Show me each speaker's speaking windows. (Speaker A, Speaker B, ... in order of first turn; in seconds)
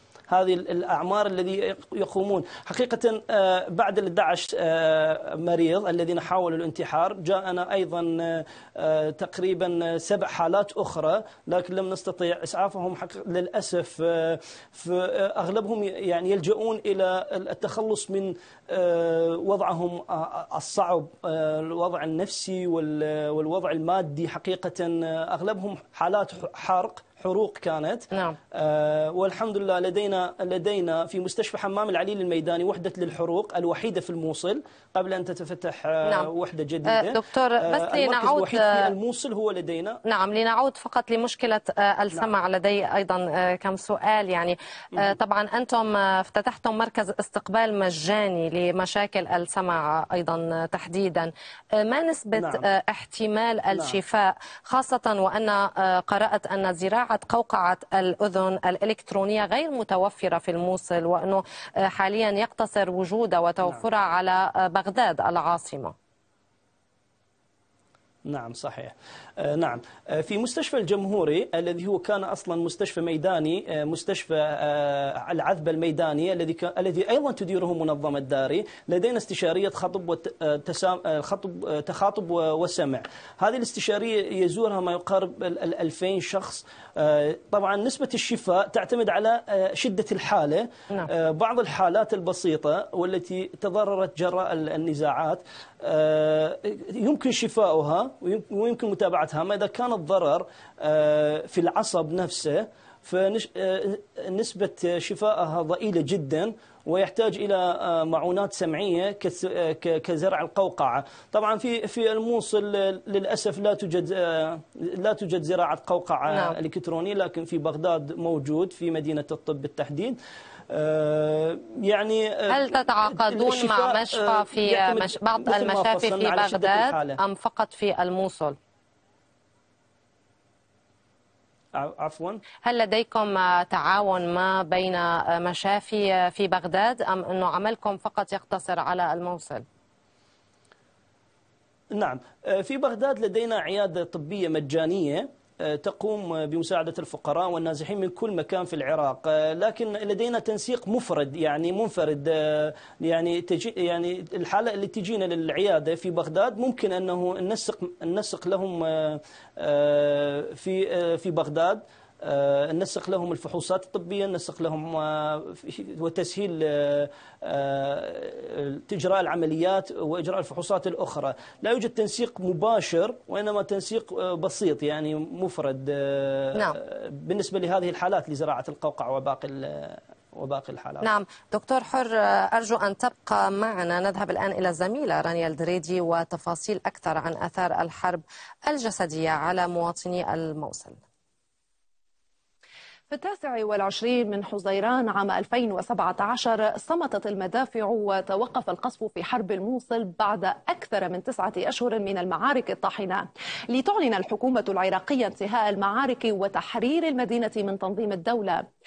Speaker A: 0.3-40.0, 52.4-52.7, 53.7-54.0, 68.3-120.2, 120.7-127.2, 131.8-132.4, 142.0-181.1
Speaker B: 28.1-28.4, 36.9-38.9, 40.1-66.0, 116.3-116.6, 122.5-128.6, 132.6-139.7, 181.0-191.0
Speaker C: 193.1-208.7